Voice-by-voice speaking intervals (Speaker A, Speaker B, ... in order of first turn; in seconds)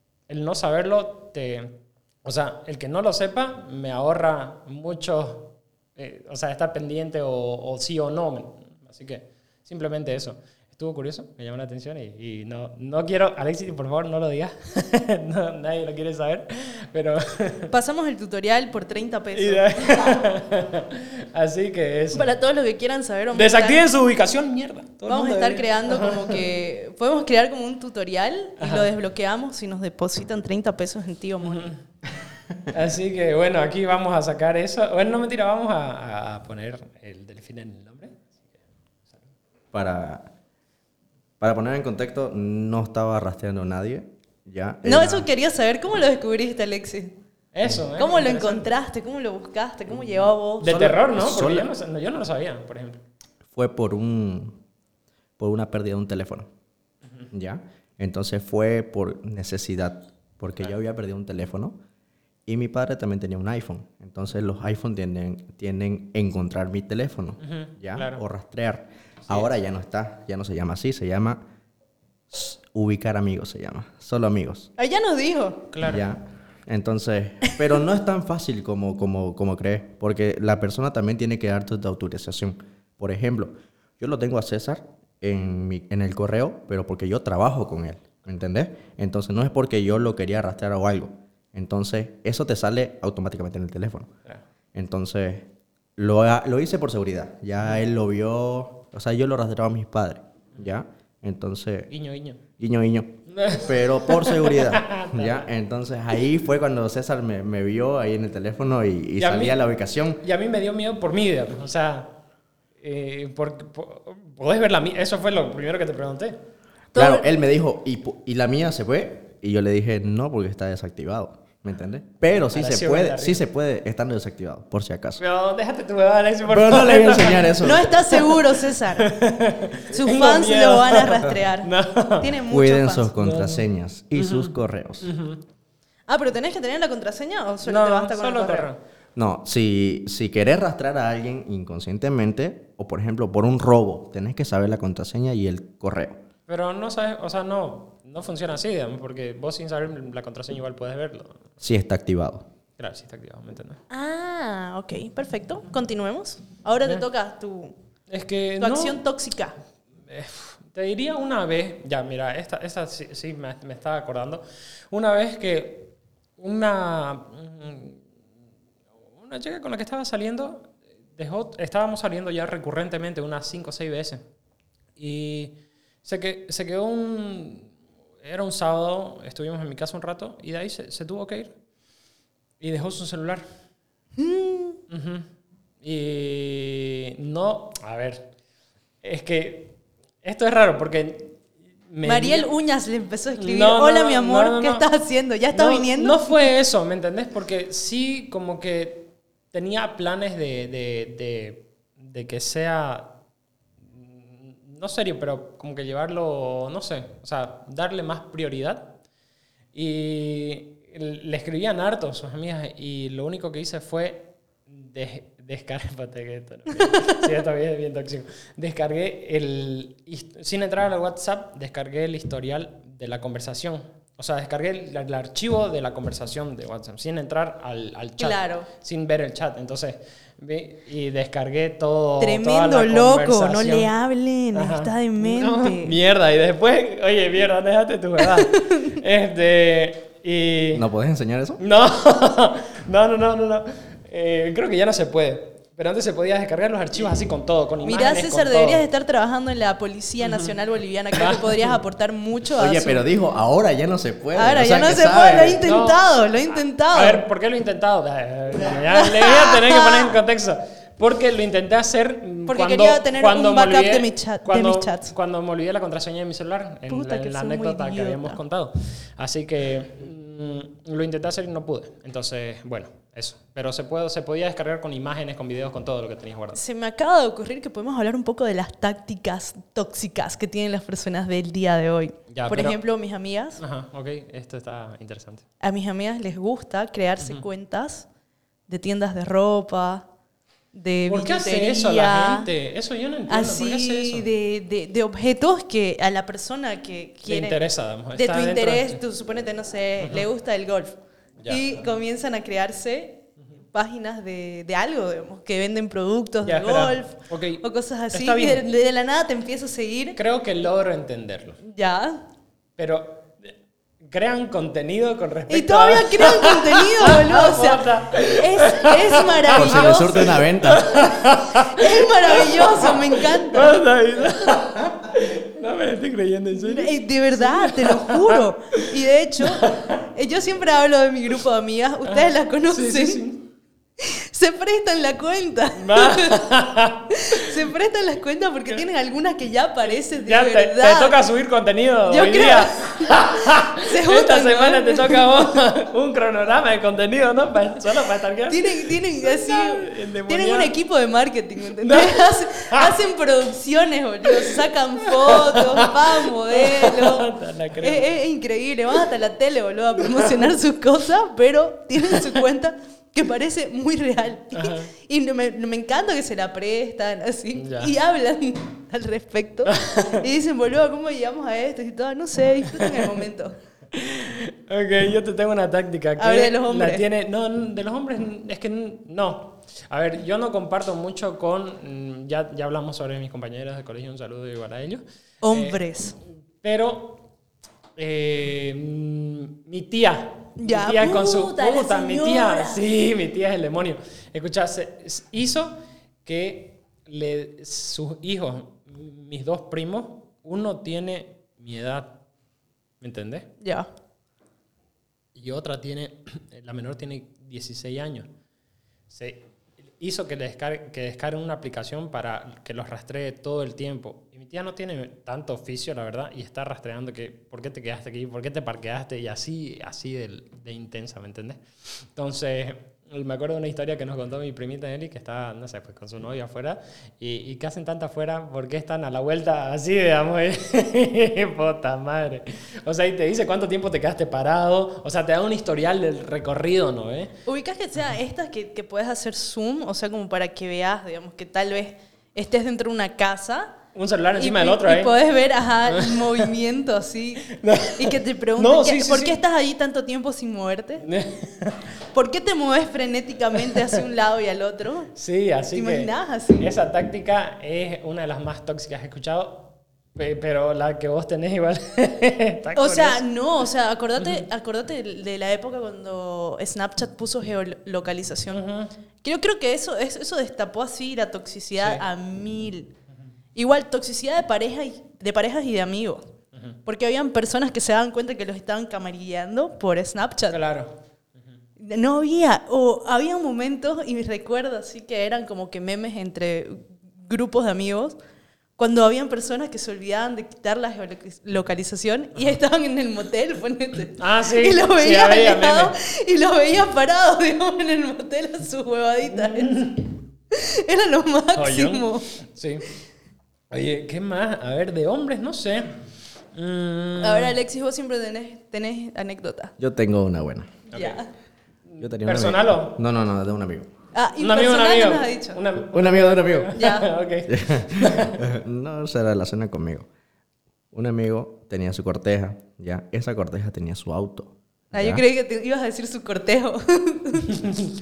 Speaker A: 0.3-17.7, 19.4-22.4, 23.3-26.4, 28.6-28.9, 31.4-31.8, 32.7-38.4, 47.5-48.7, 50.6-53.0, 67.4-68.2, 75.7-76.0, 101.9-102.4, 103.3-105.5, 109.2-109.6, 110.2-112.2, 112.8-116.4, 122.3-123.4, 125.2-132.4, 133.2-135.4, 137.7-138.8, 146.5-151.5, 152.8-153.8, 158.1-159.1, 160.1-168.0, 169.1-174.2, 175.0-181.6, 182.6-183.5, 184.9-185.3, 185.8-188.3, 189.0-192.5, 193.4-194.9, 195.5-203.2, 203.9-209.0, 209.7-233.9, 234.5-240.8, 241.6-248.8, 250.2-250.5, 251.1-251.8, 255.1-276.6, 282.3-282.8, 283.6-285.4, 291.1-294.3, 297.3-299.0, 300.0-300.2, 301.4-301.8, 306.4-308.7, 310.1-311.6, 312.8-313.5, 314.0-328.4, 329.4-330.0, 332.1-333.5, 335.8-337.4, 340.0-350.7, 351.8-352.9, 355.2-358.1, 364.5-364.9, 367.5-367.9, 369.6-370.2, 372.7-373.1, 373.9-385.8, 386.6-387.2, 388.0-402.2, 403.0-403.5, 405.4-408.3, 409.1-409.4, 410.0-437.4, 443.9-445.2, 445.9-446.4, 447.5-449.4, 451.0-451.8, 455.1-463.2, 464.2-464.4, 468.5-468.9, 471.8-472.1, 480.5-481.0, 494.1-495.9, 499.3-500.1, 501.6-502.9, 503.7-507.6, 510.9-511.2, 511.9-513.0, 514.4-518.4
Speaker B: 17.7-20.2, 22.1-23.8, 25.1-31.7, 44.9-47.2, 48.0-50.9, 74.8-75.7, 116.9-117.2, 127.6-129.1, 129.9-133.1, 136.1-138.7, 153.9-157.8, 158.6-159.6, 184.2-184.8, 192.0-196.3, 228.2-228.7, 232.2-235.9, 238.2-239.0, 247.8-253.0, 254.3-257.2, 258.9-260.2, 262.5-265.1, 266.9-268.4, 276.5-283.6, 285.6-288.1, 288.7-290.1, 290.7-292.5, 293.3-297.6, 298.1-310.2, 311.6-312.2, 315.5-320.4, 321.1-323.8, 326.6-333.2, 334.0-336.4, 337.1-341.1, 342.1-345.3, 348.5-357.3, 357.8-373.6, 376.2-377.0, 385.4-386.1, 390.6-392.8, 403.6-403.9, 437.4-443.8, 444.4-451.1, 452.1-455.1, 455.7-456.7, 462.7-468.6, 469.2-472.9, 473.6-476.2, 476.9-480.6, 481.8-488.1, 488.8-500.0, 500.5-502.4, 507.2-509.7, 510.9-511.3, 514.1-515.6, 516.7-517.1, 524.9-527.6
Speaker C: 39.7-40.3, 41.4-45.3, 50.6-51.7, 53.5-54.6, 55.4-56.5, 57.3-61.8, 62.5-71.4, 72.3-74.7, 75.8-94.1, 94.8-101.9, 102.6-110.2, 116.9-125.2, 126.5-128.0, 132.5-135.1, 139.2-146.2, 151.6-152.5, 240.7-241.6, 252.6-255.6, 319.5-320.9, 509.8-510.8, 512.0-513.9, 515.9-516.8, 517.5-520.1, 520.9-525.2